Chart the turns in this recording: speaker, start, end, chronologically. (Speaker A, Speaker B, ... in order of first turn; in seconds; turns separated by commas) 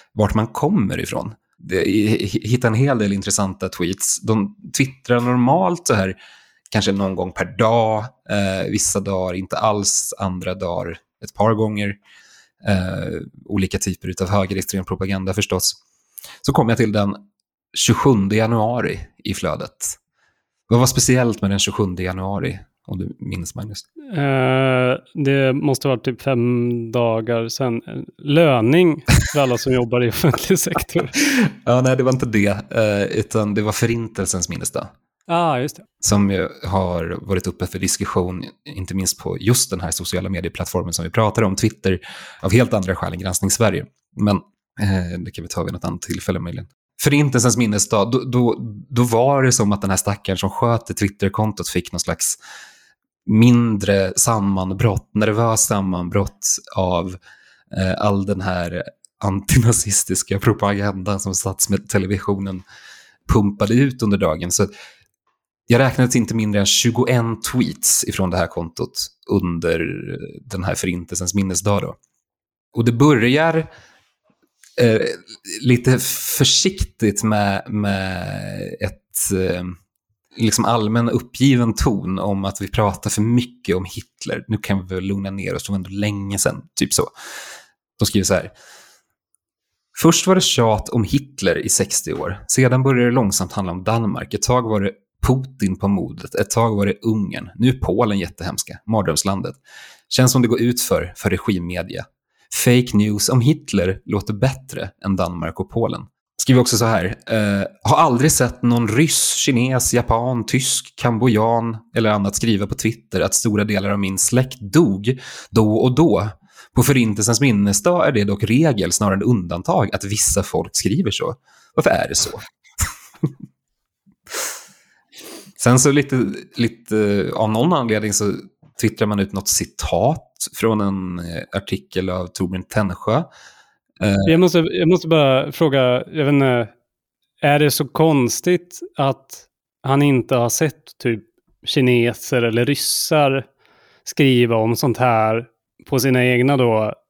Speaker A: 0.1-6.2, Speaker A: 6.7-12.0, Speaker A: 12.6-15.8, Speaker A: 16.4-17.2, Speaker A: 17.7-20.0, Speaker A: 20.7-23.8, Speaker B: 24.1-31.1, Speaker A: 31.2-34.9, Speaker B: 35.3-35.9, Speaker A: 36.0-52.4, Speaker A: 53.3-57.2, Speaker A: 57.7-62.6, Speaker A: 63.3-64.7, Speaker A: 65.7-72.0, Speaker A: 72.7-73.7, Speaker A: 74.8-79.8, Speaker A: 80.4-87.1, Speaker A: 88.0-88.5, Speaker A: 90.0-99.6, Speaker A: 100.1-122.5, Speaker A: 125.6-133.3, Speaker A: 134.0-134.4, Speaker B: 134.3-136.7, Speaker B: 137.4-143.5, Speaker B: 144.1-147.0